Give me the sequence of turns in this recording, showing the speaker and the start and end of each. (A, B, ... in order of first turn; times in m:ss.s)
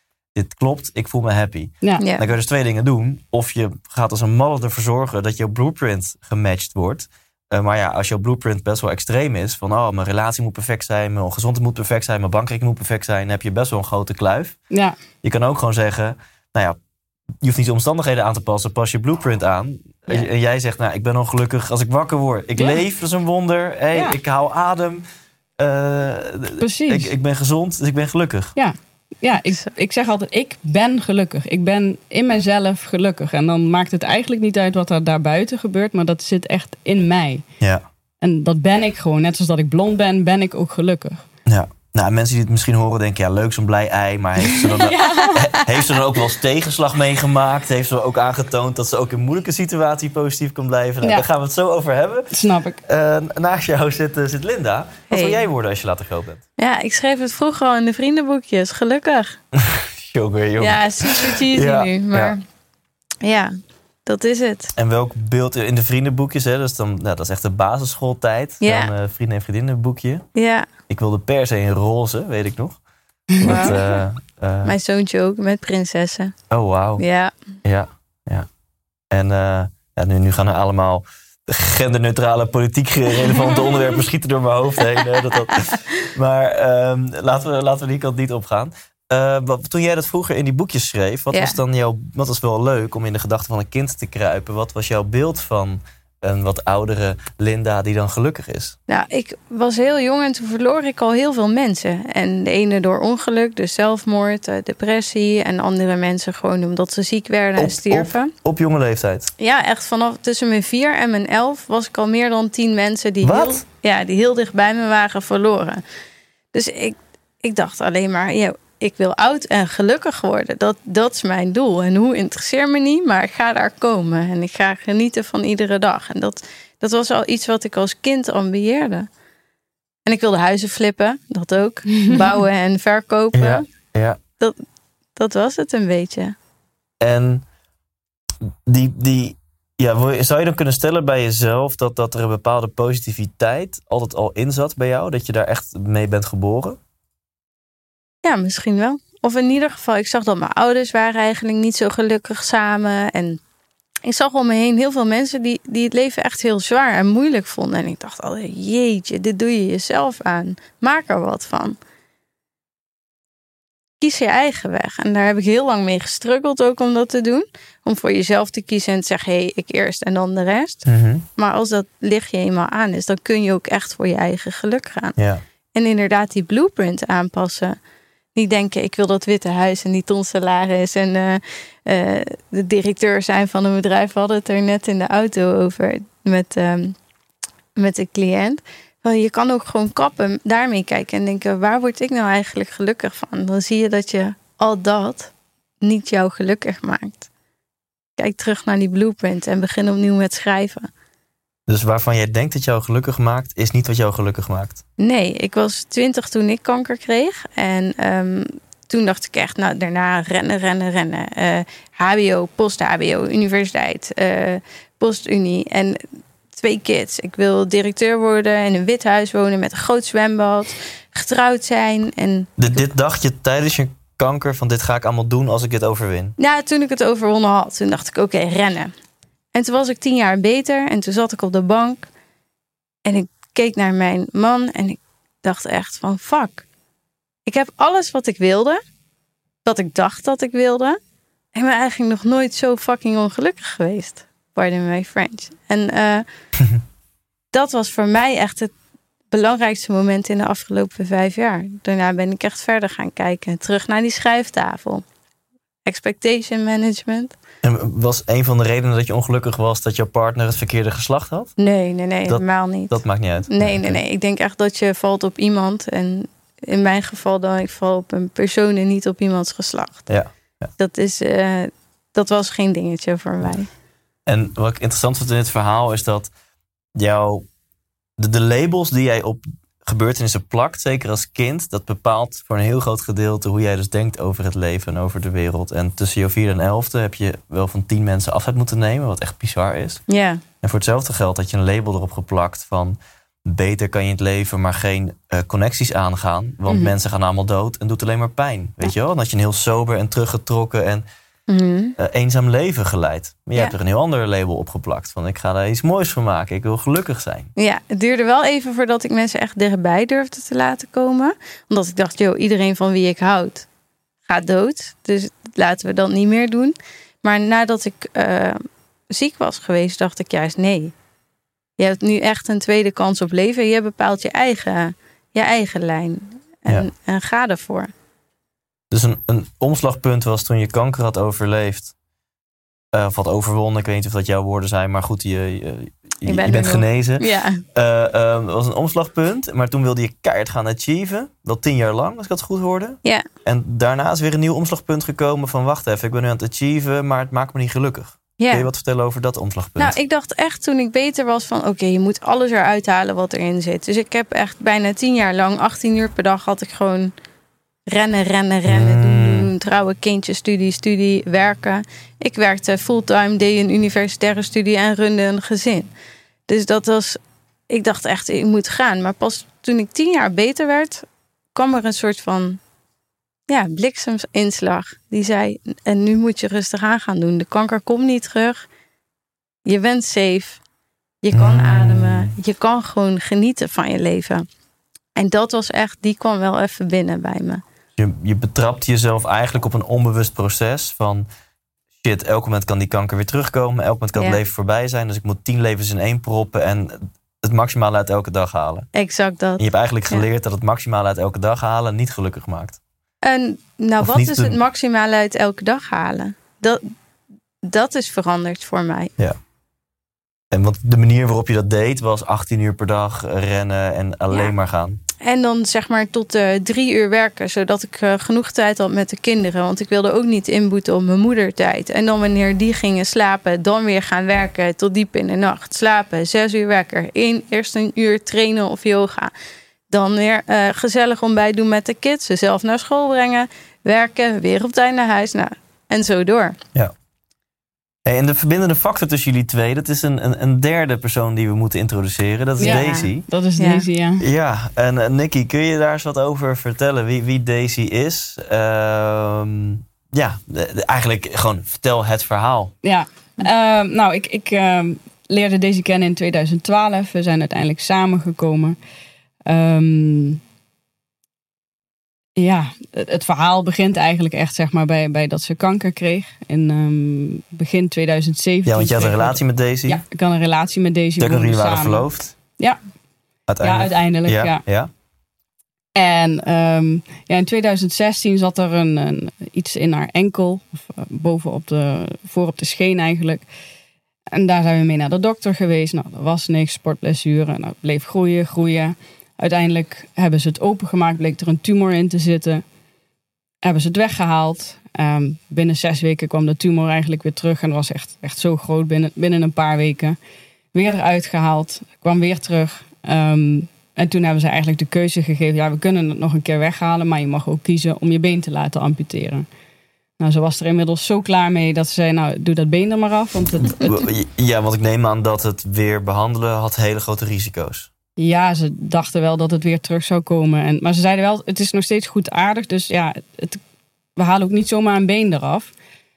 0:00.4-0:14.6 A
0:02.0-0:02.2 B
0:14.7-0:15.0 C
0:15.2-0:16.8 A
0:17.4-0:25.0 A
0:22.6-0:22.8 C
0:25.6-0:28.6 A
0:26.6-0:27.1 C
0:28.6-0:37.4 C
0:38.2-0:41.2 C
0:41.5-0:52.3 A
0:44.6-0:45.5 C
0:45.2-0:45.6 B
0:51.0-0:51.3 C
0:52.3-0:52.8 C
0:52.8-0:56.4 A
0:55.1-0:55.5 B
0:56.6-0:59.4 B
0:59.5-1:02.4 A
1:00.6-1:02.4 B
1:03.2-1:03.5 B
1:04.1-1:04.7 B
1:04.8-1:10.3 A
1:08.6-1:08.9 B
1:10.4-1:10.7 B
1:10.9-1:12.8 A
1:13.4-1:13.8 C
1:13.4-1:14.8 A
1:13.4-1:13.8 B
1:14.6-1:16.3 B
1:16.5-1:17.0 A
1:17.0-1:17.3 B
1:17.6-1:18.5 A
1:19.1-1:38.8 A
1:31.3-1:31.6 B
1:38.9-1:48.3 B
1:47.6-1:49.3 A
1:49.4-1:55.8 B
1:53.2-1:53.6 A
1:56.5-2:09.1 B
2:10.1-2:13.6 B
2:11.9-2:12.3 C
2:13.4-2:14.2 A
2:15.2-2:16.4 B
2:17.0-2:17.4 A
2:18.7-2:26.8 A
2:28.2-2:33.4 B
2:34.0-2:41.8 B
2:44.0-2:50.8 B
2:50.9-2:51.2 A
2:51.4-2:55.2 B
2:55.2-2:55.4 A
2:55.7-2:57.8 B
2:58.4-3:07.0 B
3:07.8-3:17.3 B
3:18.2-3:20.9 B
3:21.7-3:24.8 A
3:25.0-3:36.0 B
3:36.5-3:42.5 B
3:42.6-3:46.4 A
3:46.4-3:48.9 B
3:49.5-3:52.1 B
3:53.0-3:56.6 B
3:57.5-3:58.8 B
3:59.6-4:01.0 B
4:01.5-4:06.3 B
4:07.5-4:08.7 B
4:09.3-4:15.0 B
4:15.8-4:17.4 B
4:17.6-4:21.6 A
4:21.6-4:30.1 B
4:22.3-4:24.0 A
4:30.1-4:30.7 A
4:30.8-4:33.7 B
4:34.3-4:36.3 A
4:37.0-4:37.5 A
4:38.2-4:50.0 A
4:50.1-4:50.4 B
4:50.6-5:01.0 A
5:01.5-5:02.0 B
5:02.0-5:07.5 A
5:07.6-5:13.7 B
5:14.3-5:20.9 B
5:21.8-5:27.9 B
5:28.9-5:31.9 A
5:32.9-5:50.0 A
5:36.3-5:37.6 B
5:48.4-5:48.7 B
5:49.8-5:57.1 B
5:57.9-6:05.9 B
5:58.7-5:59.5 A
6:06.5-6:07.2 B
6:07.7-6:12.6 B
6:13.5-6:18.7 B
6:19.6-6:20.6 B
6:21.2-6:24.5 B
6:21.3-6:22.4 A
6:25.2-6:27.6 B
6:28.0-6:31.3 A
6:32.0-6:38.9 A
6:38.9-6:40.2 B
6:39.6-6:42.8 A
6:43.2-6:46.8 B
6:44.0-6:44.6 A
6:47.6-6:49.1 B
6:50.5-6:55.0 A
6:55.2-7:09.3 B
7:09.9-7:16.6 B
7:18.0-7:23.2 A
7:22.6-7:24.2 C
7:22.6-7:23.8 B
7:24.2-7:32.7 A
7:32.8-7:38.8 C
7:39.5-7:40.4 C
7:42.4-7:52.8 C
7:48.7-7:50.0 A
7:51.2-7:52.3 A
7:53.5-7:54.9 A
7:53.6-7:54.6 C
7:56.0-8:03.4 C
8:04.3-8:12.6 C
8:13.6-8:20.2 C
8:20.7-8:29.5 C
8:30.2-8:33.9 C
8:33.8-8:37.9 A
8:38.2-8:43.6 C
8:44.2-8:45.7 C